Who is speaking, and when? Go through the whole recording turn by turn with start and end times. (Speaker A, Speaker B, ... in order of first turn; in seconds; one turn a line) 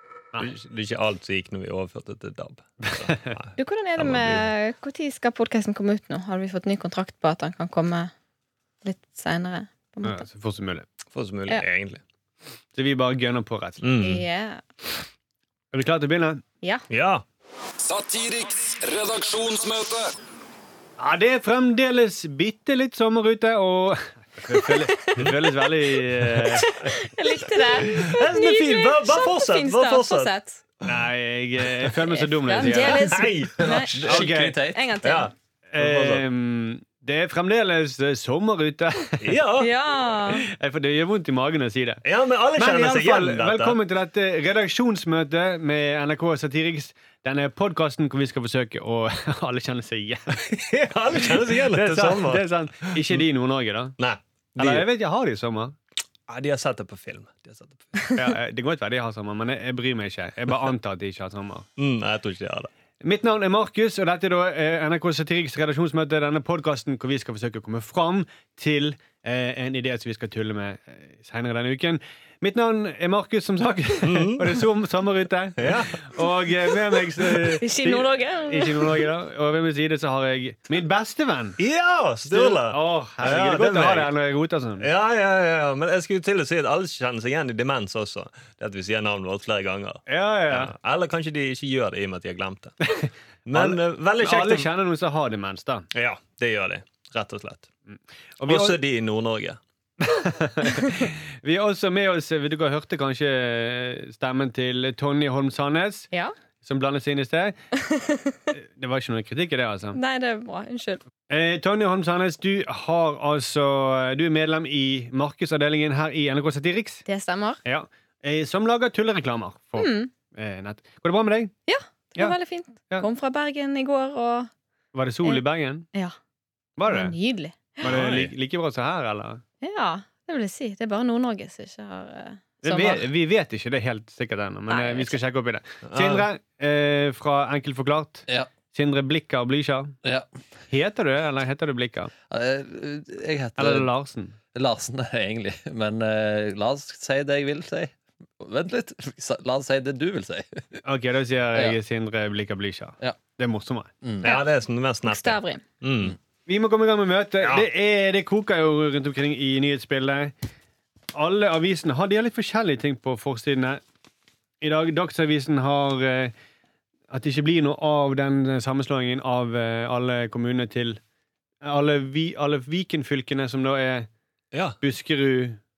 Speaker A: 0.4-4.5
Speaker B: 3.6-8.1
Speaker B: 8.8-10.2
Speaker C: 10.0-10.8
Speaker A: 11.1-12.0
Speaker C: 12.7-13.8
Speaker A: 13.8-14.2
Speaker B: 14.0-14.6
Speaker C: 15.7-16.4
Speaker A: 16.9-17.2
Speaker D: 17.8-20.1
Speaker C: 21.0-26.7
Speaker B: 26.6-30.6
Speaker A: 27.9-30.3
Speaker C: 30.8-33.0
Speaker B: 32.2-35.3
Speaker A: 32.8-34.1
Speaker E: 33.6-34.8
Speaker C: 34.1-34.5
Speaker A: 35.0-36.2
Speaker C: 35.7-39.2
Speaker A: 39.2-39.7
Speaker B: 39.6-40.5
Speaker C: 40.5-42.0
Speaker A: 42.0-43.8
Speaker C: 42.6-50.4
Speaker A: 50.4-53.2
Speaker C: 51.2-54.0
Speaker A: 54.0-54.9
Speaker C: 54.6-55.8
Speaker A: 56.3-58.1
Speaker C: 58.1-61.7
Speaker A: 61.8-62.7
Speaker C: 63.0-81.6
Speaker A: 74.0-74.6
Speaker A: 75.6-76.1
Speaker B: 77.6-79.0
Speaker A: 81.6-84.1
Speaker C: 82.3-84.8
Speaker A: 84.8-92.8
Speaker C: 90.1-90.7
Speaker C: 92.8-95.8
Speaker A: 93.5-94.7
Speaker A: 95.9-97.7
Speaker C: 97.9-98.8
Speaker A: 98.4-99.6
Speaker C: 100.0-106.1
Speaker C: 106.6-107.5
Speaker B: 107.8-108.3
Speaker C: 108.5-110.0
Speaker B: 109.9-111.0
Speaker C: 111.3-117.0
Speaker B: 117.0-117.6
Speaker C: 117.6-121.5
Speaker B: 119.8-120.1
Speaker B: 121.7-124.5
Speaker C: 124.9-125.8
Speaker C: 126.8-127.1
Speaker B: 126.9-127.8
Speaker C: 127.8-129.4
Speaker A: 127.8-128.3
Speaker B: 129.6-133.1
Speaker C: 132.6-139.9
Speaker B: 134.7-135.2
Speaker A: 135.8-136.2
Speaker C: 140.7-142.1
Speaker E: 142.3-143.9
Speaker C: 143.6-144.3
Speaker E: 144.5-150.8
Speaker C: 150.8-153.9
Speaker E: 154.0-154.3
Speaker A: 154.2-156.2
Speaker B: 155.0-155.6
Speaker C: 156.5-160.3
Speaker C: 161.1-163.8
Speaker C: 164.6-166.3
Speaker C: 167.1-171.0
Speaker C: 171.6-174.1
Speaker C: 174.8-175.6